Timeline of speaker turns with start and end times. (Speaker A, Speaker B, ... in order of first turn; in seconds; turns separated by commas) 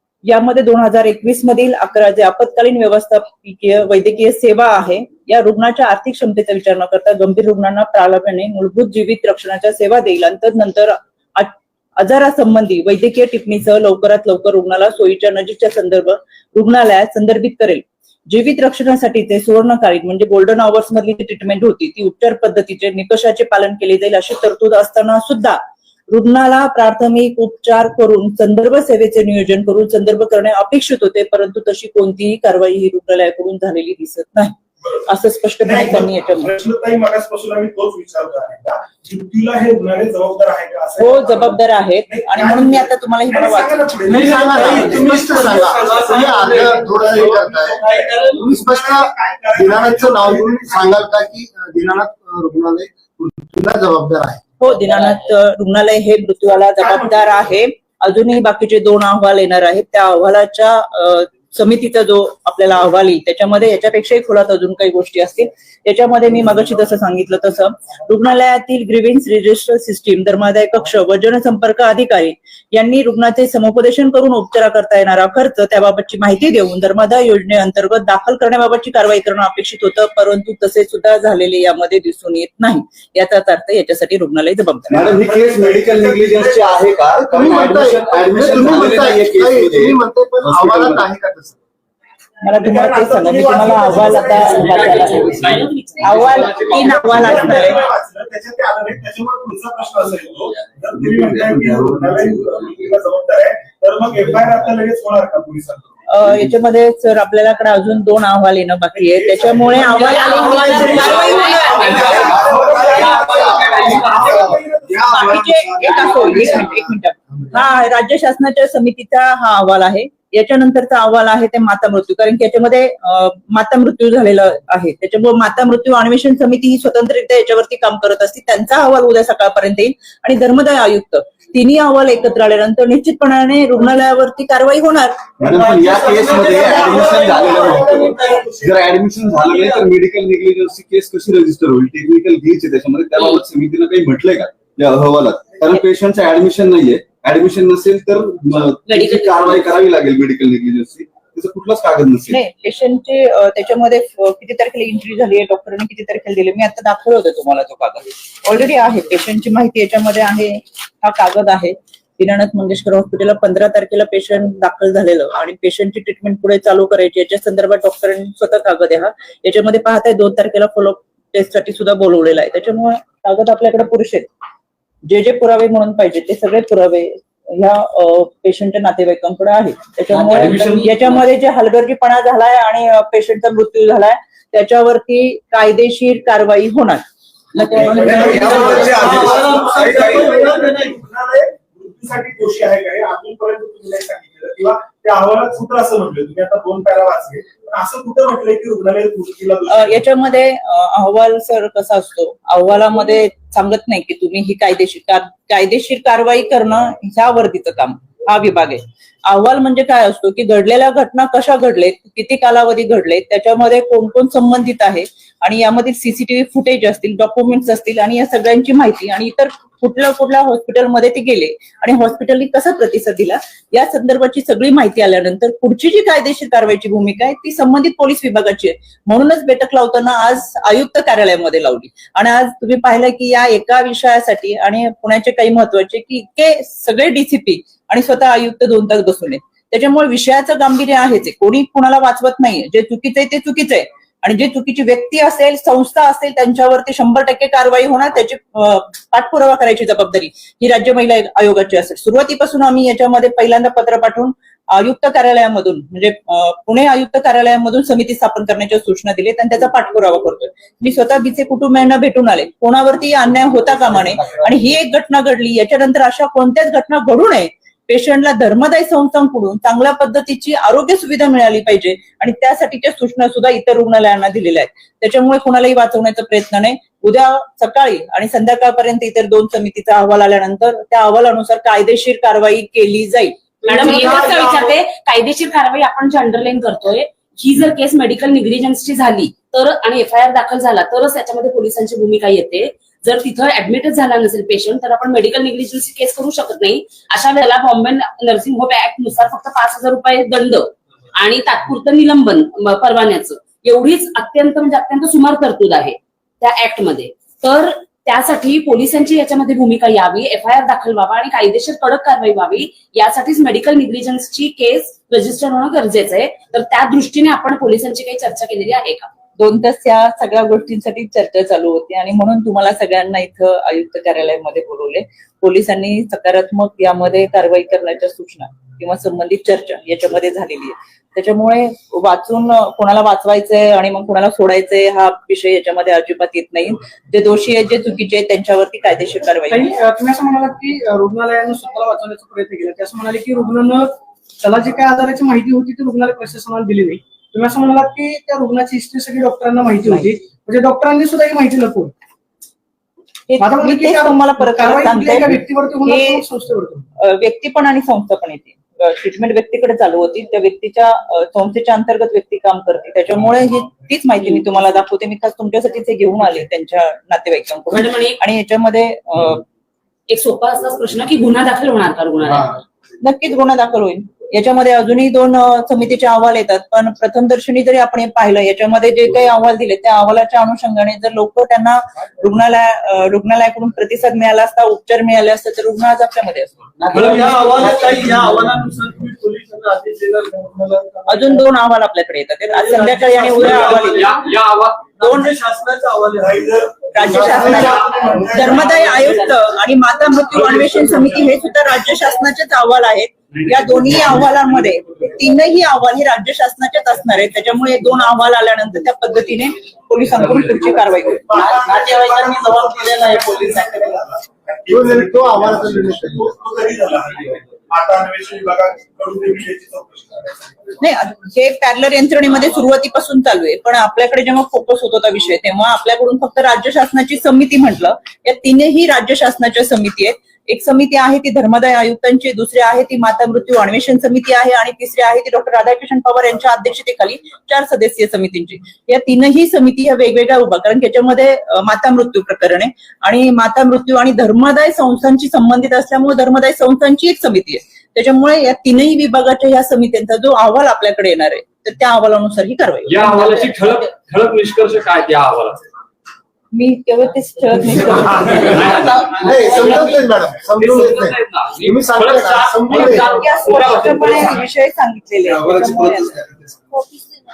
Speaker A: 0.3-36.5, Speaker B: 35.6-50.9, Speaker A: 41.0-44.1, Speaker C: 44.1-54.4, Speaker D: 44.1-48.3, Speaker A: 54.6-85.0, Speaker B: 56.8-57.5, Speaker E: 84.9-91.1, Speaker B: 85.0-87.7, Speaker C: 87.3-91.6, Speaker B: 88.4-88.7, Speaker A: 92.4-97.9, Speaker B: 92.6-95.6, Speaker F: 94.3-97.0, Speaker D: 94.5-97.7, Speaker B: 96.5-106.0, Speaker E: 100.9-102.9, Speaker A: 106.1-112.5, Speaker B: 108.9-115.3, Speaker F: 109.8-114.1, Speaker D: 110.8-112.2, Speaker C: 112.2-116.9, Speaker E: 112.3-113.8, Speaker D: 113.8-114.2, Speaker A: 115.1-135.3, Speaker E: 135.4-152.4, Speaker B: 135.4-139.5, Speaker G: 136.8-137.4, Speaker F: 148.9-149.7, Speaker A: 152.3-174.3, Speaker A: 175.1-189.2, Speaker D: 180.1-181.2, Speaker B: 187.7-200.0, Speaker E: 188.0-190.7, Speaker G: 188.1-190.7, Speaker D: 188.2-190.6, Speaker A: 199.7-284.2, Speaker F: 283.7-319.1, Speaker B: 283.7-284.6, Speaker A: 319.4-339.7, Speaker H: 339.5-351.9, Speaker A: 349.9-350.1, Speaker A: 353.3-356.2, Speaker H: 353.4-356.9, Speaker A: 357.0-369.4, Speaker F: 367.7-368.2, Speaker F: 370.1-372.6, Speaker A: 373.0-387.6, Speaker G: 386.9-391.4, Speaker D: 386.9-388.5, Speaker A: 391.1-394.2, Speaker G: 392.7-394.1, Speaker D: 393.2-395.6, Speaker A: 395.0-395.4, Speaker G: 395.1-396.5, Speaker B: 396.2-399.3, Speaker A: 396.9-411.4, Speaker C: 397.0-398.6, Speaker G: 397.4-398.8, Speaker B: 400.6-401.2, Speaker B: 411.2-420.7, Speaker G: 411.6-412.7, Speaker G: 413.2-413.6, Speaker C: 414.7-416.3, Speaker A: 420.8-453.5, Speaker D: 452.9-455.6, Speaker A: 456.5-459.0, Speaker D: 458.3-464.4, Speaker C: 459.0-464.4, Speaker A: 462.7-466.1, Speaker E: 465.2-466.8